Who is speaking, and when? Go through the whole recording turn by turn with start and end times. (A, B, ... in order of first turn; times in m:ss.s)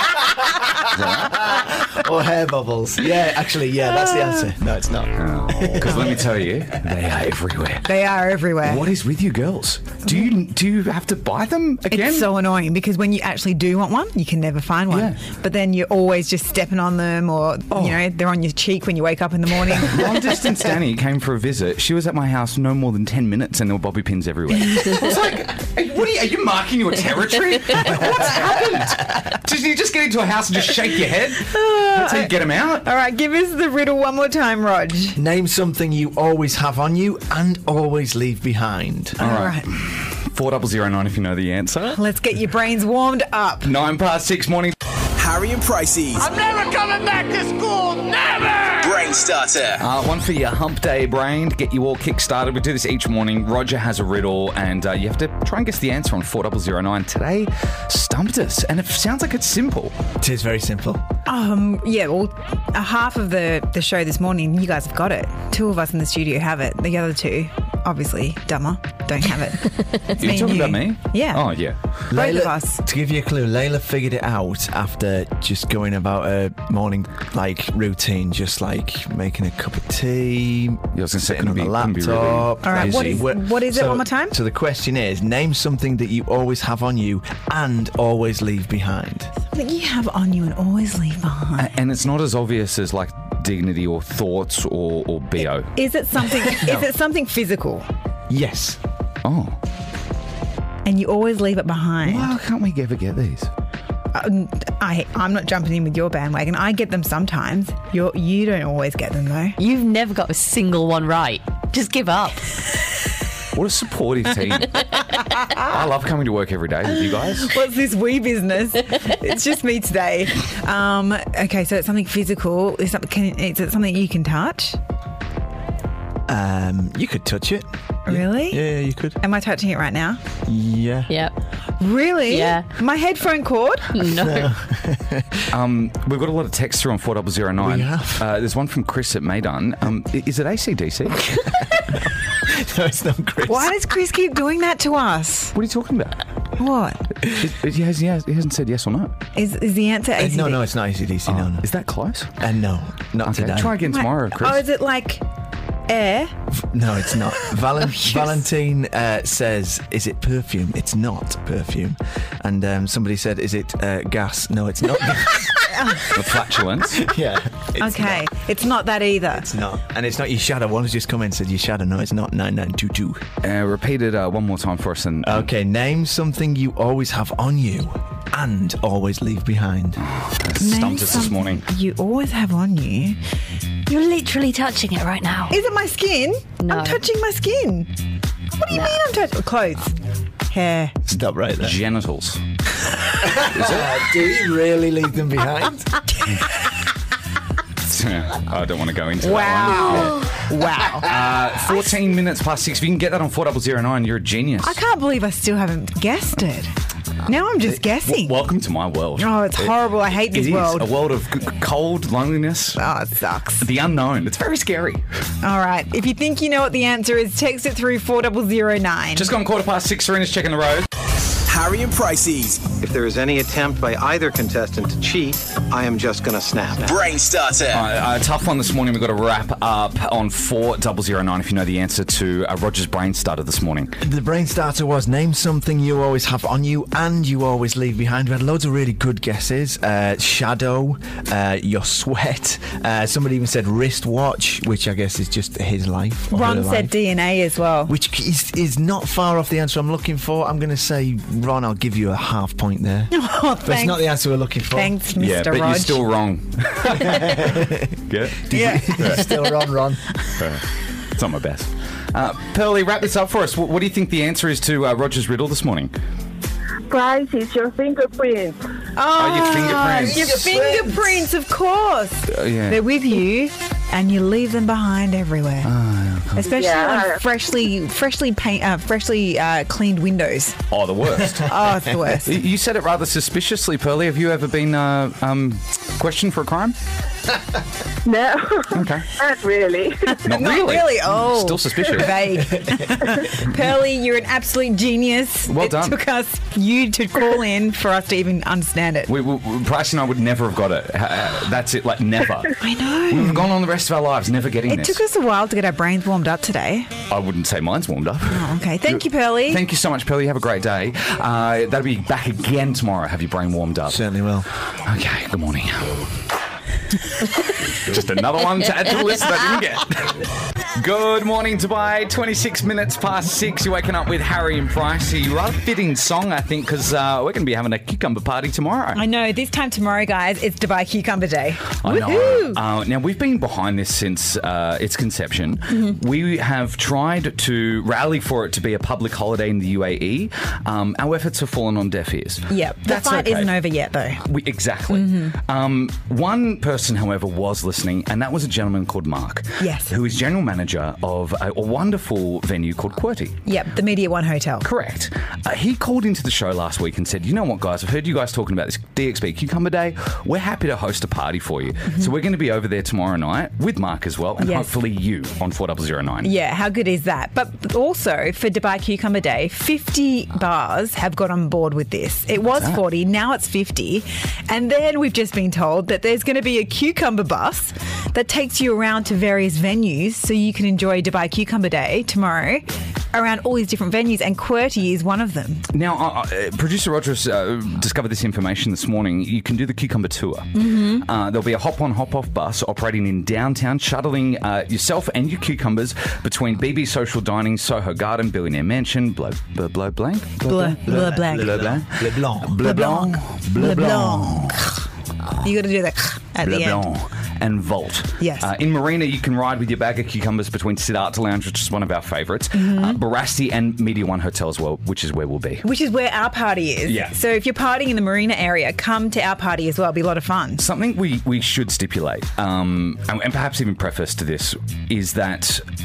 0:00.9-0:01.6 A
0:01.3-0:06.2 B
0:05.2-0:07.9 A
0:07.8-0:08.9 C
0:08.6-0:12.3 A
0:11.9-0:20.0 C
0:14.9-0:15.2 A
0:17.7-0:18.0 A
0:19.7-0:32.9 A
0:31.4-0:35.2 C
0:35.2-0:39.2 B
0:39.2-0:42.0 A
0:39.2-0:39.7 C
0:41.9-0:43.7 C
0:43.6-0:44.8 A
0:45.2-0:46.3 D
0:46.2-0:48.9 E
0:48.8-0:49.8 D
0:49.8-1:00.0 A
1:00.2-1:01.0 B
1:01.3-1:11.5 C
1:10.2-1:11.8 A
1:12.1-1:29.3 B
1:12.1-1:12.8 C
1:20.9-1:23.2 A
1:22.6-1:24.4 C
1:29.5-1:31.7 C
1:31.6-1:35.7 A
1:35.8-1:37.9 C
1:36.5-1:36.8 B
1:38.3-1:38.8 B
1:39.2-1:39.6 A
1:40.8-1:42.4 C
1:42.0-1:43.5 A
1:44.1-1:49.6 C
1:49.6-1:52.5 F
1:53.6-1:57.5 A
1:57.4-2:04.8 C
2:06.3-2:09.2 B
2:08.1-2:08.6 C
2:09.2-2:10.2 C
2:10.5-2:11.2 B
2:11.8-2:14.0 C
2:12.3-2:12.7 F
2:13.9-2:14.6 F
2:14.1-2:15.5 B
2:15.5-2:21.4 A
2:17.6-2:18.3 B
2:21.7-2:23.7 B
2:23.4-2:25.6 C
2:25.5-2:26.2 A
2:26.6-2:27.0 C
2:27.2-2:29.1 A
2:29.4-2:30.6 C
2:30.2-2:31.7 B
2:31.3-2:32.3 A
2:32.4-2:33.8 B
2:33.2-2:34.6 A
2:33.8-2:35.2 C
2:35.9-2:36.3 C
2:36.5-2:45.6 B
2:37.8-2:38.4 C
2:45.8-2:46.1 C
2:46.1-2:47.1 A
2:46.9-2:48.3 B
2:47.8-2:49.5 C
2:49.4-2:53.3 B
2:53.4-2:55.5 A
2:55.2-3:00.0 B
3:00.0-3:01.6 A
3:00.6-3:03.2 C
3:03.9-3:05.5 F
3:05.5-3:07.9 C
3:06.6-3:07.0 F
3:08.6-3:10.0 C
3:08.7-3:09.0 F
3:10.5-3:11.0 C
3:11.1-3:11.8 B
3:11.6-3:12.4 A
3:13.2-3:15.9 B
3:13.3-3:14.0 A
3:17.9-3:20.3 A
3:19.2-3:21.1 C
3:21.0-3:24.8 A
3:24.6-3:26.7 C
3:27.2-3:28.4 C
3:27.7-3:32.8 A
3:29.2-3:30.9 C
3:32.8-3:33.6 C
3:33.6-3:35.0 A
3:35.4-3:39.3 C
3:39.2-3:40.9 A
3:41.5-3:42.7 D
3:42.8-3:47.0 G
3:46.8-3:47.9 D
3:47.7-3:54.0 A
3:54.0-4:07.0 B
4:06.3-4:07.9 C
4:07.9-4:15.0 B
4:13.1-4:14.2 C
4:14.7-4:16.0 C
4:15.2-4:19.3 A
4:17.1-4:20.0 B
4:18.5-4:19.1 C
4:20.4-4:20.6 A
4:21.2-4:25.9 A
4:26.9-4:28.6 H
4:29.0-4:35.7 C
4:29.2-4:30.6 A
4:30.2-4:31.0 B
4:32.3-4:32.8 A
4:35.6-4:36.5 A
4:36.4-4:40.6 C
4:36.5-4:37.2 H
4:40.7-4:41.5 A
4:41.4-4:42.4 C
4:42.1-4:46.8 A
4:48.0-4:50.2 H
4:48.7-4:49.1 A
4:50.1-4:59.1 C
4:50.3-4:52.5 A
4:52.6-4:53.0 B
4:55.5-4:56.0 A
4:59.1-5:02.6 A
5:02.6-5:03.5 C
5:03.1-5:05.0 A
5:04.7-5:06.9 C
5:07.1-5:14.0 A
5:08.3-5:09.6 C
5:13.9-5:14.5 B
5:14.9-5:16.1 A
5:17.8-5:20.2 A
5:20.8-5:29.0 A
5:28.9-5:32.6 C
5:31.8-5:43.6 A
5:42.5-5:44.2 C
5:44.2-5:53.4 A
5:44.9-5:45.3 C
5:49.6-5:49.9 C
5:53.5-5:54.7 C
5:54.6-6:06.3 A
6:04.4-6:04.7 C
6:06.2-6:25.7 C
6:12.5-6:12.8 A
6:25.7-6:44.8 A
6:30.6-6:31.1 C
6:40.4-6:41.7 C
6:40.5-6:42.9 B
6:42.6-6:44.8 C
6:45.4-6:46.9 C
6:46.4-6:55.6 A
6:48.2-6:48.5 C
6:52.5-6:53.0 C
6:55.6-7:00.6 C
6:56.8-6:57.2 A
7:00.6-7:05.6 A